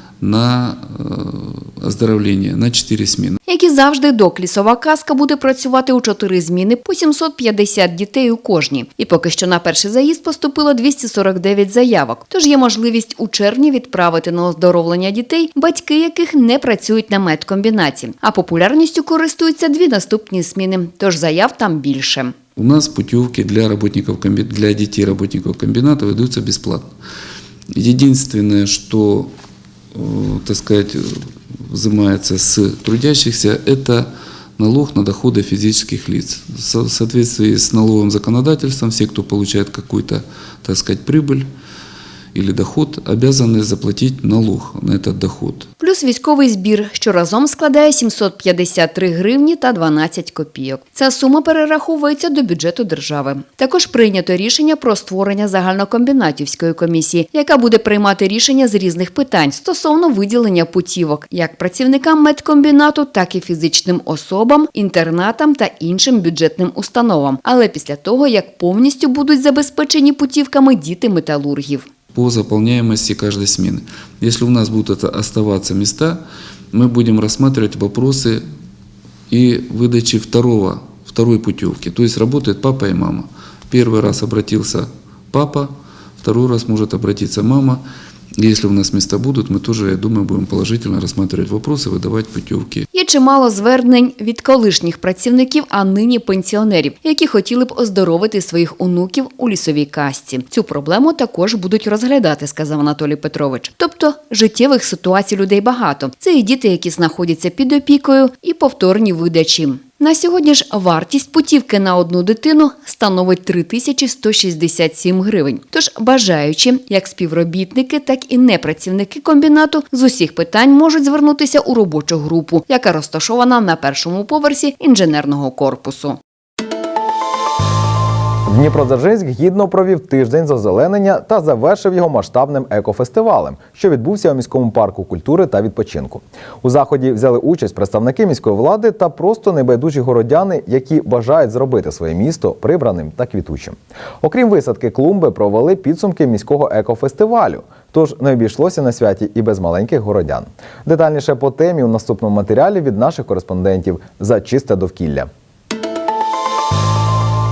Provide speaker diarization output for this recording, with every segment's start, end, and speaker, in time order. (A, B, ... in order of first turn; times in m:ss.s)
0:00.2-0:03.4 A
0:03.5-0:22.4 B
0:22.6-0:26.9 A
0:27.7-0:29.3 A
0:29.9-0:41.5 A
0:42.3-0:45.7 A
0:45.8-1:11.9 B
1:12.1-1:18.4 A
1:19.3-1:27.8 A
1:28.4-1:32.9 A
1:32.9-2:06.2 B
2:08.5-2:35.3 C